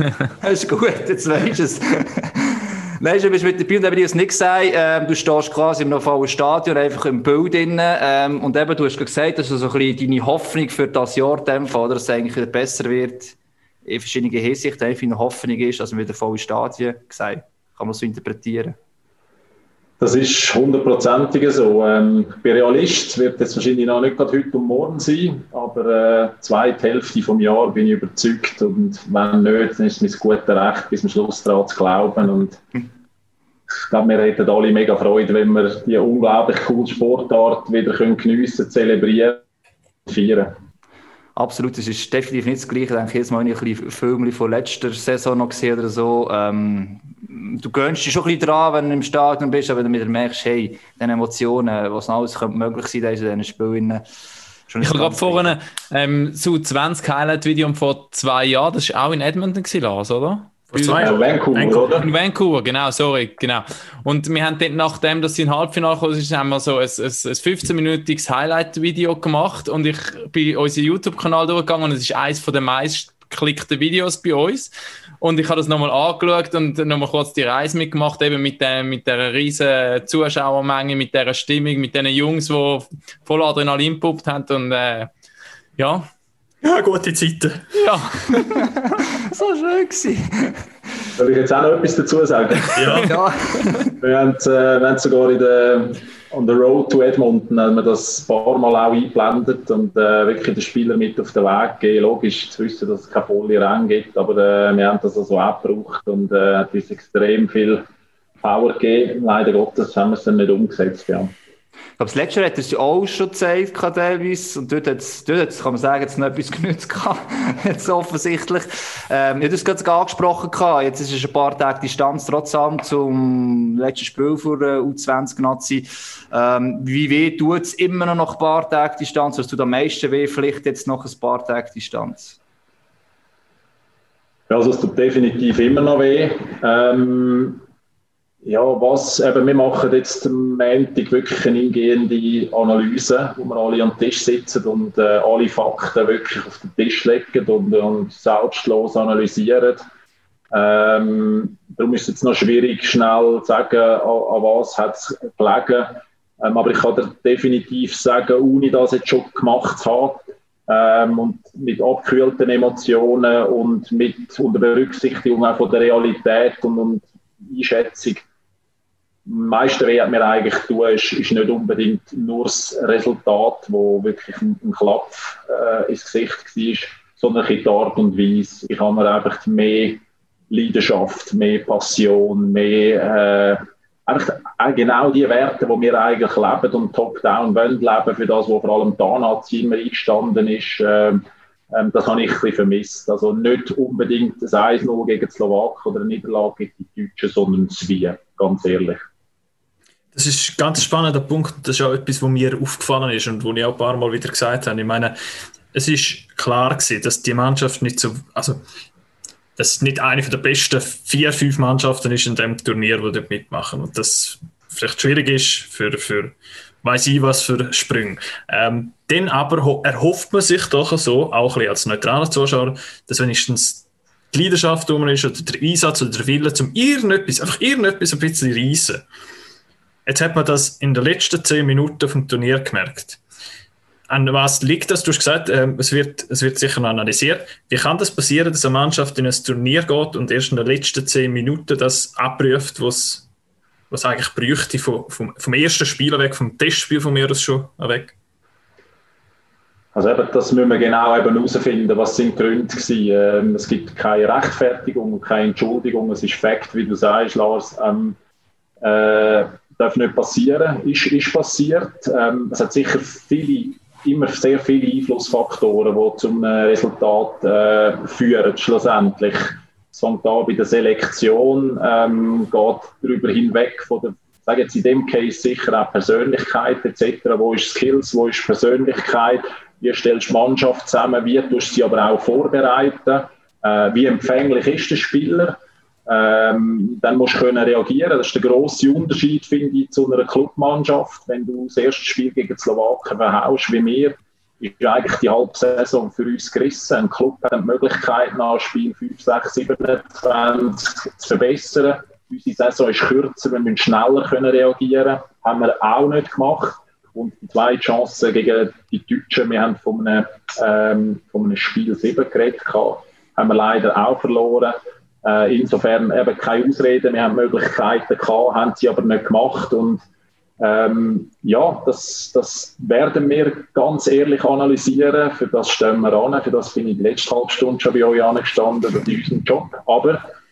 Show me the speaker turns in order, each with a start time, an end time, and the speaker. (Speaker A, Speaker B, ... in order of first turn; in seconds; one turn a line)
Speaker A: 0.4-18.8
Speaker B: 20.0-32.8
Speaker B: 33.8-39.4
Speaker B: 40.0-40.5
Speaker A: 41.4-54.0
Speaker A: 54.7-55.6
Speaker C: 54.8-61.1
Speaker D: 60.7-62.0
Speaker B: 61.0-62.1
Speaker C: 61.9-85.1
Speaker C: 85.8-86.1
Speaker D: 86.6-87.7
Speaker C: 87.7-88.6
Speaker A: 88.5-90.7
Speaker B: 91.2-93.1
Speaker D: 92.7-93.2
Speaker A: 93.0-93.9
Speaker B: 94.0-107.8
Speaker B: 108.4-111.3
Speaker A: 112.0-132.4
Speaker B: 134.5-137.6
Speaker B: 138.4-149.8
Speaker B: 150.5-168.2
Speaker B: 169.2-199.0
Speaker D: 200.1-205.1
Speaker D: 205.7-208.6
Speaker D: 209.6-229.0
Speaker D: 230.1-233.2
Speaker D: 234.1-243.3
Speaker D: 243.9-248.1
Speaker B: 249.9-258.2
Speaker B: 258.8-320.0
Speaker B: 320.6-330.2